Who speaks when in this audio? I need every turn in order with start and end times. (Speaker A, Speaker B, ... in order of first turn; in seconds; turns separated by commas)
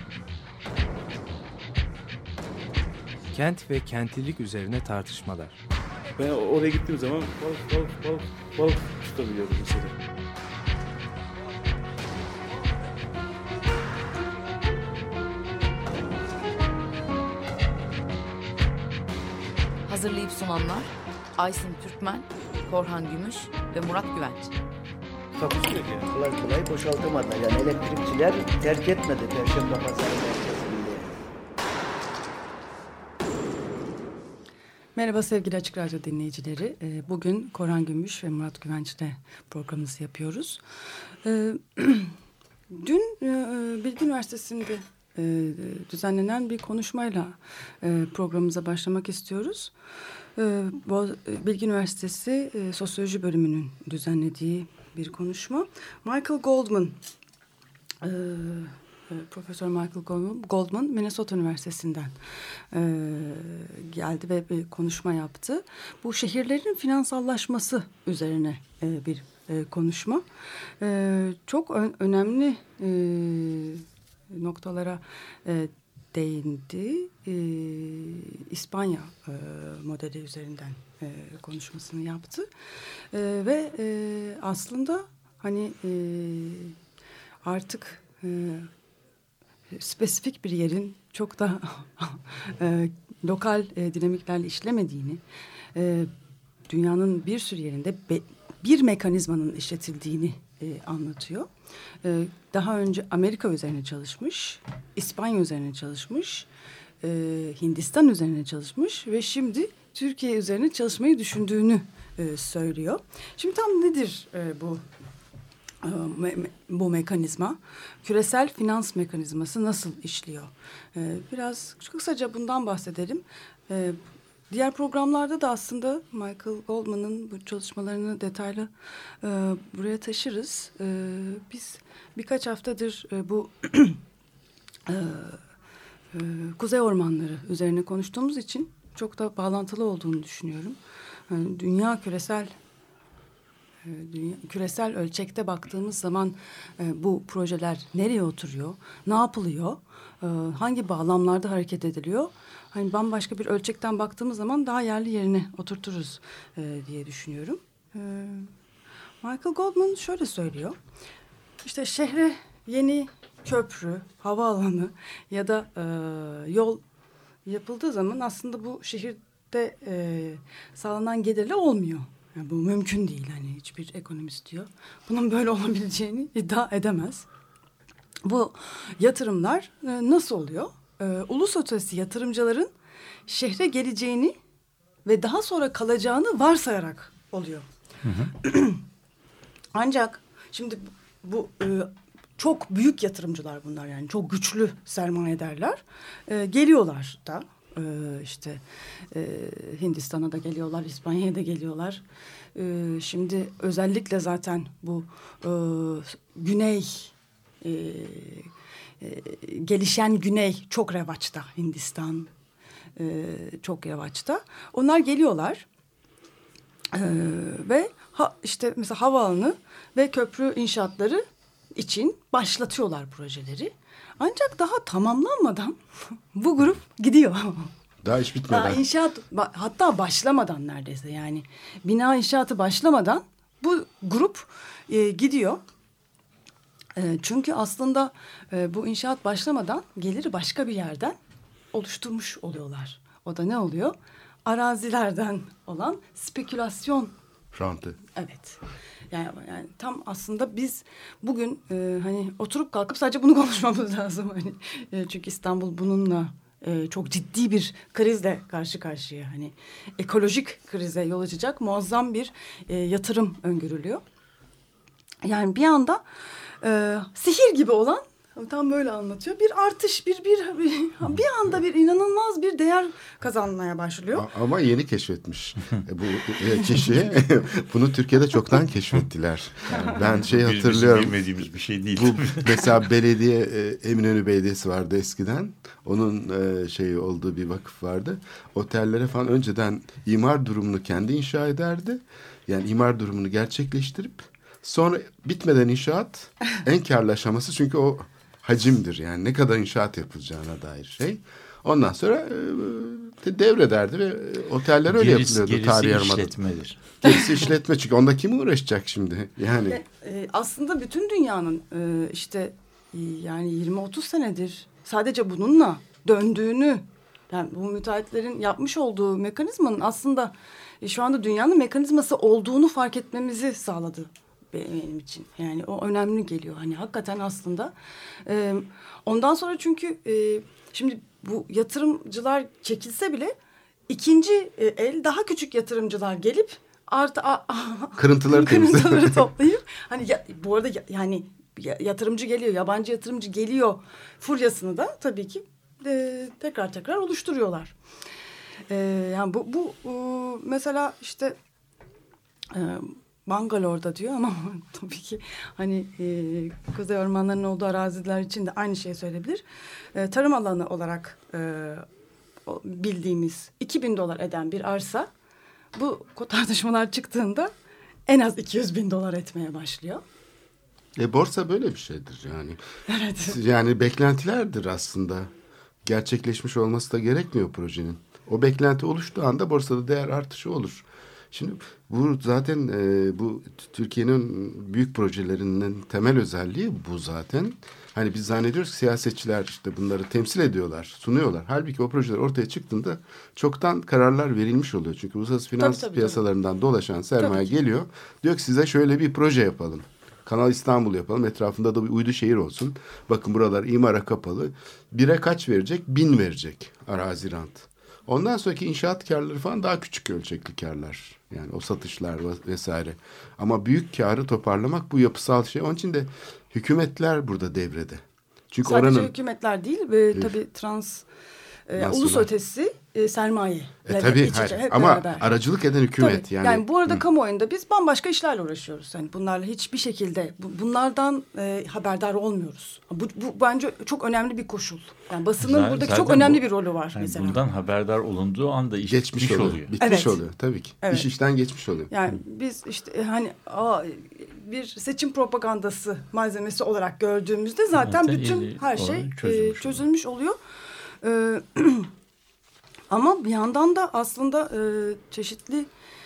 Speaker A: 3.3-5.6, Speaker B: 6.2-9.9, Speaker C: 19.9-24.5, Speaker B: 25.4-26.1, Speaker D: 26.0-31.2, Speaker E: 35.0-40.6, Speaker E: 41.2-42.1, Speaker E: 42.7-49.7, Speaker E: 50.4-57.0, Speaker E: 58.0-62.1, Speaker E: 62.7-70.2, Speaker E: 70.8-82.5, Speaker E: 83.1-86.7, Speaker E: 87.4-88.7, Speaker E: 89.7-95.2, Speaker E: 95.7-96.1, Speaker E: 96.7-101.5, Speaker E: 102.0-106.5, Speaker E: 107.0-114.8, Speaker E: 115.8-124.0, Speaker E: 124.5-128.7, Speaker E: 129.2-134.0, Speaker E: 134.9-135.4, Speaker E: 136.1-140.8, Speaker E: 141.3-142.5, Speaker E: 143.8-158.5, Speaker E: 159.2-160.8, Speaker E: 161.6-166.8, Speaker E: 167.4-177.3, Speaker E: 178.2-182.7, Speaker E: 183.3-184.3, Speaker E: 185.0-187.7, Speaker F: 188.0-188.3, Speaker E: 188.3-188.8, Speaker E: 189.7-198.6, Speaker E: 199.1-202.0, Speaker E: 202.6-208.5, Speaker E: 209.0-212.3, Speaker E: 213.0-215.6, Speaker E: 216.9-221.2, Speaker E: 221.8-225.8, Speaker E: 226.3-227.7, Speaker G: 228.0-228.8, Speaker E: 228.5-235.6, Speaker E: 236.9-241.2, Speaker E: 241.7-247.1, Speaker G: 247.5-248.0, Speaker E: 248.1-248.6, Speaker E: 249.1-264.0, Speaker E: 265.2-266.0, Speaker E: 266.6-274.3, Speaker G: 274.1-281.2, Speaker F: 279.7-282.6, Speaker G: 281.9-306.3, Speaker F: 304.9-307.1, Speaker G: 307.0-309.8, Speaker E: 309.7-327.7, Speaker E: 328.2-333.3, Speaker E: 333.9-347.7, Speaker G: 338.0-339.2, Speaker E: 348.7-351.4, Speaker E: 352.5-359.4, Speaker E: 359.9-361.8, Speaker E: 362.4-365.1, Speaker E: 365.7-367.5, Speaker E: 368.1-370.0, Speaker G: 371.0-372.6, Speaker E: 372.9-373.4, Speaker G: 373.2-375.3, Speaker G: 375.8-419.1, Speaker E: 395.6-396.2, Speaker E: 397.2-397.6, Speaker E: 418.6-421.0, Speaker E: 421.7-425.4, Speaker G: 421.7-422.3, Speaker G: 423.9-427.0, Speaker E: 425.9-437.4, Speaker F: 435.4-439.8, Speaker G: 438.8-441.9, Speaker E: 439.8-440.2, Speaker E: 440.8-441.1, Speaker E: 441.9-450.4, Speaker F: 447.8-449.8, Speaker E: 451.0-451.9, Speaker E: 452.9-455.7